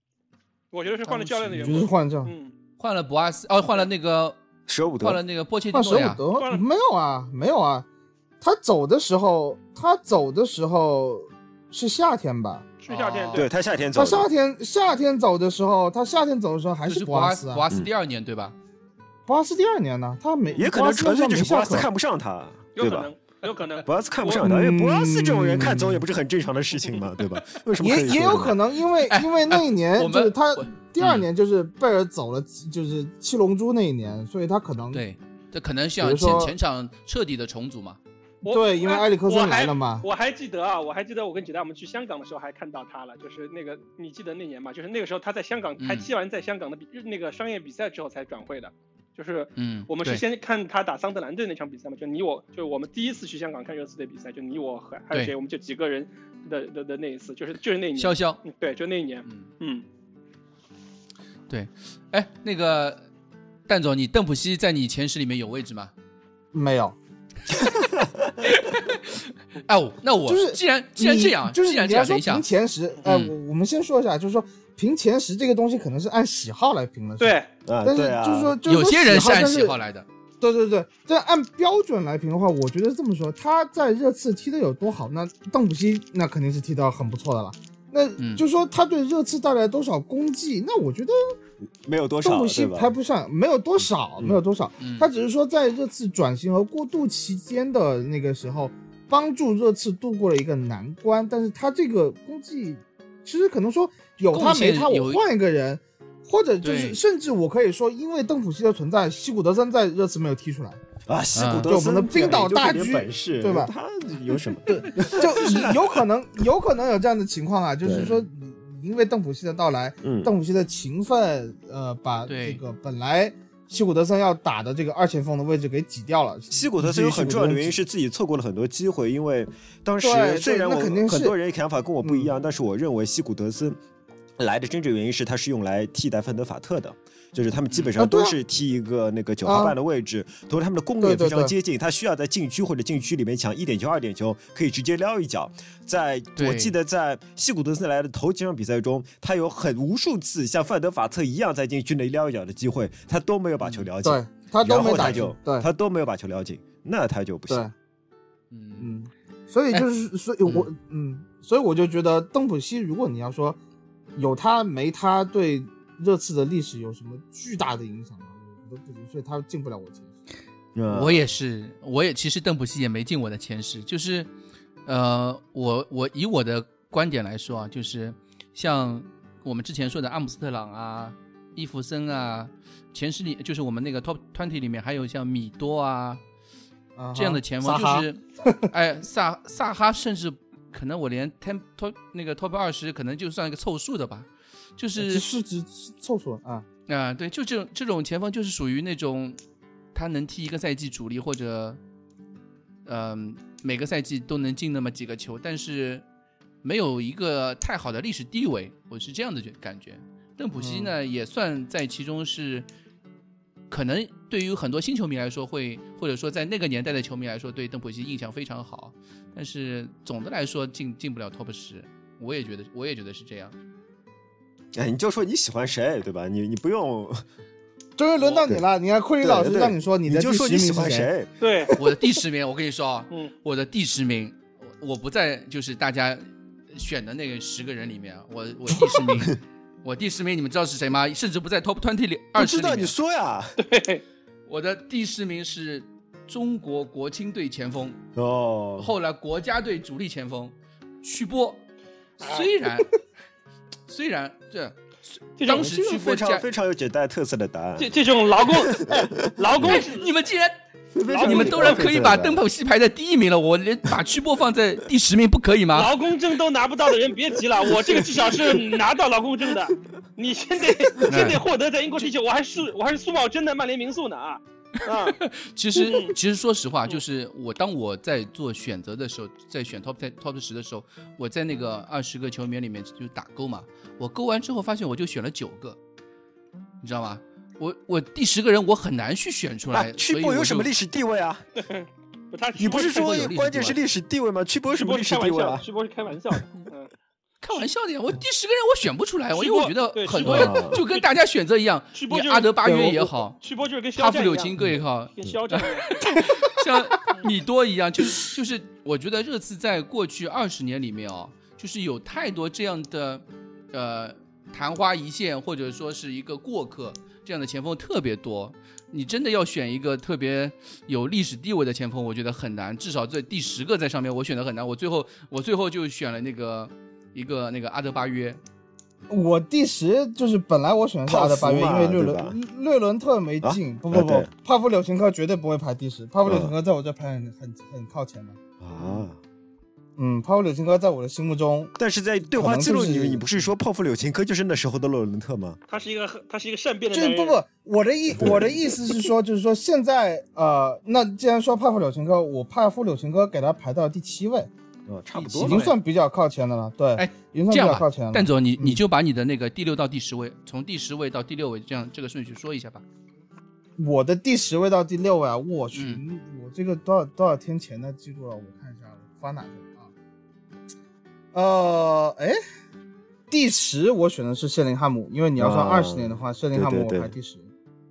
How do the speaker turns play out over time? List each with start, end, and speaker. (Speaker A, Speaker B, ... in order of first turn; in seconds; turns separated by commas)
Speaker A: 0.7-2.5, Speaker B: 1.1-1.8, Speaker C: 1.6-2.3, Speaker B: 2.8-4.4, Speaker D: 4.7-5.2, Speaker B: 5.0-6.2, Speaker C: 5.7-7.9, Speaker A: 6.3-6.7, Speaker C: 8.4-12.7, Speaker B: 12.8-13.4, Speaker A: 12.8-13.5, Speaker D: 13.3-14.3, Speaker C: 13.9-17.6, Speaker B: 16.9-18.5, Speaker C: 19.3-21.9, Speaker D: 20.6-23.1, Speaker A: 22.8-24.5, Speaker D: 23.8-28.6, Speaker C: 24.4-26.0, Speaker C: 27.8-35.0, Speaker B: 29.1-31.3, Speaker B: 34.9-38.0, Speaker C: 36.0-36.5, Speaker A: 38.4-59.8, Speaker C: 38.5-40.0, Speaker B: 45.8-46.1, Speaker B: 49.5-50.2, Speaker B: 58.0-58.4, Speaker B: 59.2-59.5, Speaker B: 61.5-63.0, Speaker B: 63.6-65.9, Speaker C: 66.5-67.0, Speaker D: 67.5-68.3, Speaker B: 68.4-72.5, Speaker C: 70.2-79.8, Speaker B: 73.0-73.3, Speaker A: 77.2-77.5, Speaker D: 77.6-78.6, Speaker B: 78.6-80.1, Speaker C: 80.4-91.1, Speaker B: 88.2-88.4, Speaker D: 91.8-92.9, Speaker C: 92.2-110.8, Speaker B: 94.8-95.1, Speaker B: 104.3-105.2, Speaker B: 106.6-107.0, Speaker D: 111.1-115.9, Speaker B: 111.3-111.7, Speaker C: 111.7-113.7, Speaker C: 114.6-127.8, Speaker D: 117.8-118.1, Speaker D: 120.0-120.3, Speaker B: 122.3-122.6, Speaker D: 126.5-133.8, Speaker C: 130.0-131.3, Speaker C: 132.0-132.3, Speaker D: 134.4-157.6, Speaker C: 138.0-138.4, Speaker C: 139.4-139.7, Speaker C: 141.0-141.5, Speaker B: 146.3-146.7, Speaker B: 153.6-153.9, Speaker C: 154.0-155.7, Speaker B: 154.9-155.2, Speaker C: 157.5-157.7, Speaker B: 158.5-158.9, Speaker C: 158.8-163.6, Speaker C: 164.1-170.1, Speaker D: 170.7-171.2, Speaker B: 170.9-174.3, Speaker B: 174.8-186.2, Speaker C: 186.9-188.7, Speaker B: 187.1-195.3, Speaker C: 195.0-196.7, Speaker B: 196.9-199.4, Speaker B: 199.9-201.8, Speaker B: 202.8-206.0, Speaker B: 206.6-212.7, Speaker C: 210.6-210.9, Speaker B: 213.7-223.6, Speaker D: 224.7-227.2, Speaker C: 228.0-231.1, Speaker D: 228.3-228.6, Speaker D: 229.2-231.3, Speaker A: 231.4-231.8, Speaker B: 231.8-242.9, Speaker D: 242.4-243.6, Speaker A: 243.6-244.0, Speaker B: 244.5-248.0, Speaker D: 248.2-248.9, Speaker B: 248.8-251.6, Speaker B: 252.2-252.9, Speaker B: 253.9-256.4, Speaker A: 255.4-255.7, Speaker D: 255.5-257.9, Speaker A: 257.8-260.1, Speaker D: 258.4-259.8, Speaker B: 259.6-260.6, Speaker D: 260.9-262.4, Speaker A: 261.1-261.9, Speaker B: 261.2-265.9, Speaker A: 265.7-275.2, Speaker B: 271.0-271.4, Speaker B: 275.2-285.8, Speaker A: 275.8-276.1, Speaker B: 286.8-290.7, Speaker D: 289.7-291.4, Speaker A: 291.6-293.3, Speaker D: 292.6-295.6, Speaker B: 292.9-293.8, Speaker A: 294.7-296.9, Speaker B: 297.4-303.4, Speaker A: 299.3-301.0, Speaker D: 300.2-300.8, Speaker A: 301.9-306.0, Speaker B: 303.9-328.4, Speaker C: 329.1-338.4, Speaker D: 331.1-332.4, Speaker D: 333.4-334.3, Speaker D: 336.2-336.5, Speaker D: 338.6-339.2, Speaker B: 338.8-339.1, Speaker C: 340.0-341.7, Speaker D: 341.8-345.6, Speaker C: 342.3-343.2, Speaker A: 345.7-347.4, Speaker C: 346.9-354.5, Speaker D: 348.1-348.5, Speaker D: 354.9-355.7, Speaker C: 355.2-358.8, Speaker B: 355.4-355.7, Speaker B: 356.9-362.8, Speaker C: 363.8-369.9, Speaker B: 365.7-366.0, Speaker C: 371.3-372.4, Speaker C: 373.3-377.5, Speaker D: 375.4-377.1